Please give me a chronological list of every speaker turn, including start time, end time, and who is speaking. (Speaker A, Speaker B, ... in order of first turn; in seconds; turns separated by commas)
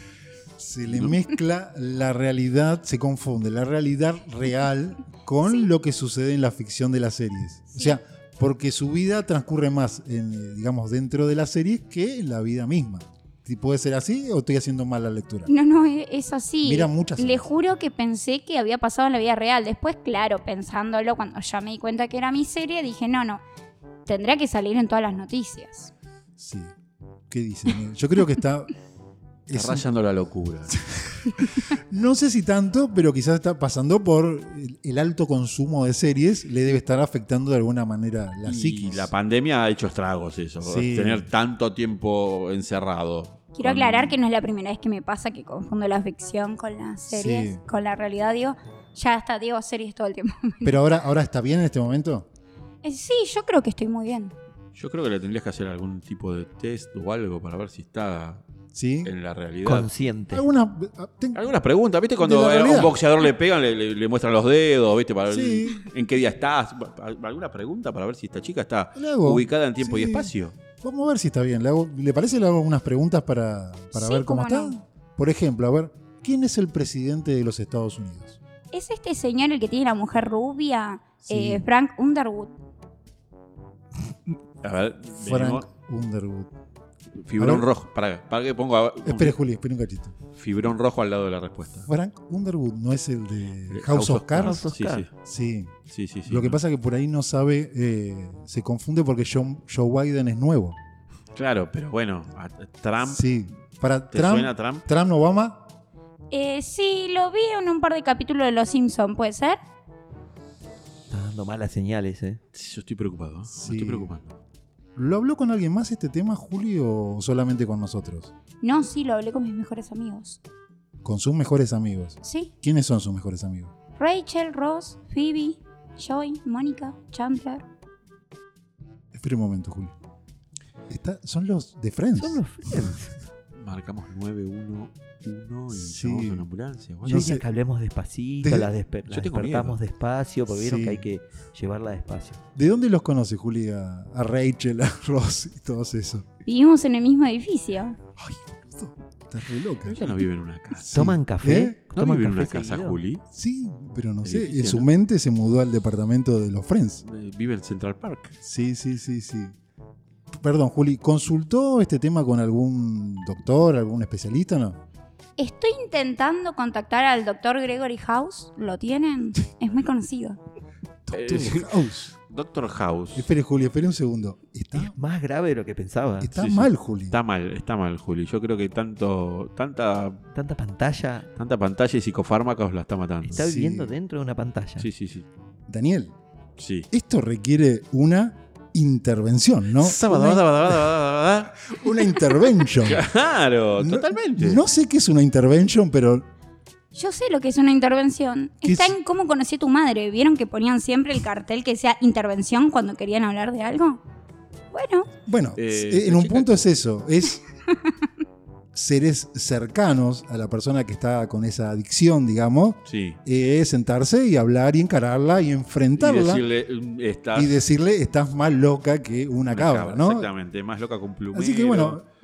Speaker A: 0.6-15.5, Speaker B: 0.9-1.1, Speaker C: 7.7-8.0, Speaker C: 15.5-23.4, Speaker A: 16.6-17.5, Speaker C: 24.1-25.9, Speaker A: 26.4-26.7, Speaker A: 27.3-28.7, Speaker A: 29.5-29.8, Speaker B: 29.5-30.8, Speaker A: 30.7-39.1, Speaker B: 38.4-44.2, Speaker A: 40.6-41.2, Speaker C: 43.5-50.8, Speaker A: 47.1-47.6, Speaker A: 50.6-52.3, Speaker C: 52.8-54.3, Speaker B: 54.8-58.4, Speaker A: 58.7-59.1, Speaker B: 59.0-59.9, Speaker D: 59.6-60.4, Speaker A: 60.3-61.5, Speaker B: 61.3-70.5, Speaker A: 62.2-63.0, Speaker A: 65.3-65.8, Speaker A: 69.0-78.4, Speaker C: 73.9-74.8, Speaker C: 78.7-82.5, Speaker A: 81.2-81.7, Speaker B: 84.6-85.7, Speaker A: 85.2-86.5, Speaker B: 87.2-89.3, Speaker A: 87.4-87.7, Speaker A: 89.0-90.1, Speaker B: 90.3-91.9, Speaker A: 91.9-94.6, Speaker B: 93.7-95.1, Speaker D: 94.4-95.0, Speaker A: 95.2-95.7, Speaker B: 95.9-96.6, Speaker A: 96.3-100.8, Speaker B: 101.3-103.2, Speaker A: 103.0-105.6, Speaker B: 104.1-104.8, Speaker C: 106.3-109.6, Speaker D: 111.1-112.4, Speaker B: 112.5-114.3, Speaker A: 113.5-114.1, Speaker A: 115.0-118.3, Speaker C: 118.6-120.4, Speaker A: 121.0-123.7, Speaker C: 122.2-122.5, Speaker C: 124.0-127.6, Speaker A: 129.1-129.9, Speaker A: 130.9-132.4, Speaker D: 132.2-133.1, Speaker B: 133.5-137.2, Speaker A: 135.7-136.4, Speaker A: 137.0-137.4, Speaker D: 137.0-142.4, Speaker A: 138.4-138.7, Speaker B: 139.1-139.8, Speaker A: 140.5-141.1, Speaker A: 142.6-146.2, Speaker C: 146.4-148.0, Speaker A: 148.2-150.2, Speaker B: 149.8-150.9, Speaker A: 150.8-151.8, Speaker D: 150.9-153.0, Speaker B: 151.9-153.2, Speaker A: 153.3-157.0, Speaker B: 154.2-154.9, Speaker B: 157.0-158.3, Speaker A: 158.4-159.5, Speaker A: 160.3-164.8, Speaker C: 165.4-170.4, Speaker A: 171.1-172.1, Speaker B: 171.1-173.3, Speaker A: 173.1-174.9, Speaker D: 174.8-176.3, Speaker A: 176.2-177.2, Speaker B: 176.3-180.2, Speaker D: 180.3-181.3, Speaker B: 181.4-183.4, Speaker D: 183.3-184.9, Speaker A: 183.3-183.9, Speaker B: 184.8-185.2, Speaker A: 185.7-186.1, Speaker B: 186.6-186.9, Speaker A: 186.9-190.9, Speaker B: 189.8-191.8, Speaker A: 191.6-193.1, Speaker B: 192.8-194.6, Speaker A: 193.8-196.2, Speaker C: 196.9-204.0, Speaker A: 198.6-199.0, Speaker C: 204.7-205.1, Speaker A: 205.2-207.4, Speaker B: 205.6-206.5, Speaker A: 208.7-216.4, Speaker B: 212.8-213.2, Speaker B: 216.0-217.6, Speaker A: 217.3-220.3, Speaker B: 219.5-222.0, Speaker A: 221.3-222.0